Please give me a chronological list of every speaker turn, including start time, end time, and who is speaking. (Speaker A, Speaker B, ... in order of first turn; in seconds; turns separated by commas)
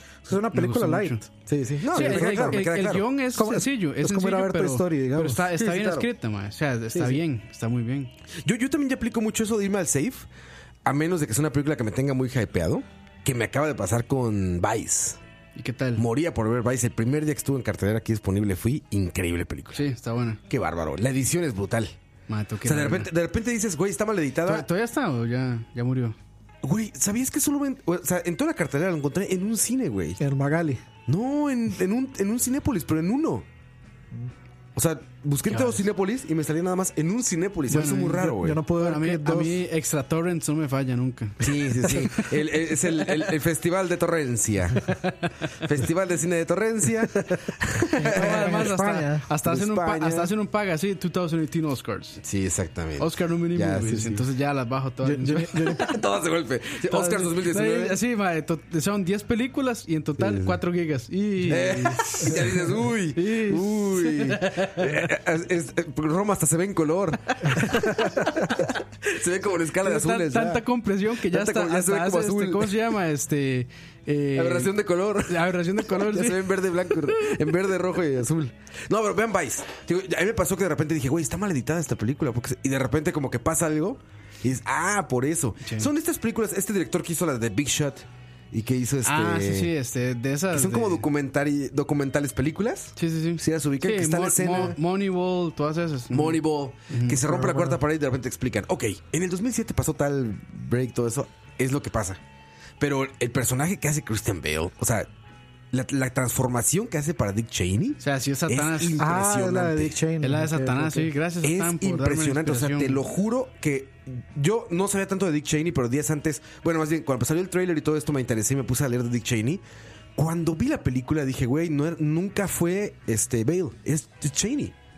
Speaker A: 0.2-1.3, Speaker B: 0.3-1.2, Speaker C: 1.5-3.1, Speaker B: 1.9-8.1, Speaker A: 1.9-2.7, Speaker A: 3.3-5.5, Speaker C: 5.6-6.1, Speaker C: 8.4-10.3, Speaker C: 10.8-15.2, Speaker B: 15.6-16.0, Speaker C: 16.0-19.8, Speaker B: 19.7-20.4, Speaker C: 20.5-21.9, Speaker B: 22.3-23.1, Speaker C: 22.6-24.7, Speaker B: 24.5-26.2, Speaker C: 26.6-30.2, Speaker A: 30.2-30.8, Speaker C: 31.1-33.5, Speaker C: 34.8-38.6, Speaker B: 35.5-35.9, Speaker B: 37.7-43.2, Speaker A: 38.3-39.6, Speaker C: 41.4-44.9, Speaker B: 44.8-45.5, Speaker C: 45.6-48.7, Speaker A: 48.0-49.2, Speaker B: 48.1-52.2, Speaker C: 49.4-50.3, Speaker C: 52.2-54.2, Speaker B: 53.0-55.9, Speaker A: 55.0-55.9, Speaker C: 55.7-58.0, Speaker B: 56.9-62.4, Speaker C: 60.2-60.6, Speaker C: 61.5-70.7, Speaker B: 63.1-65.1, Speaker B: 67.4-68.7, Speaker B: 69.8-74.7, Speaker C: 71.2-72.9, Speaker C: 74.4-89.7, Speaker B: 75.3-76.5, Speaker B: 85.6-85.9, Speaker B: 89.0-91.0, Speaker C: 90.5-94.8, Speaker B: 93.0-97.2, Speaker C: 96.1-102.2, Speaker A: 97.2-97.8, Speaker C: 102.8-105.1, Speaker C: 105.7-110.0, Speaker B: 108.0-109.0, Speaker A: 109.0-111.1, Speaker B: 110.2-113.0, Speaker C: 111.4-119.6, Speaker C: 120.2-124.7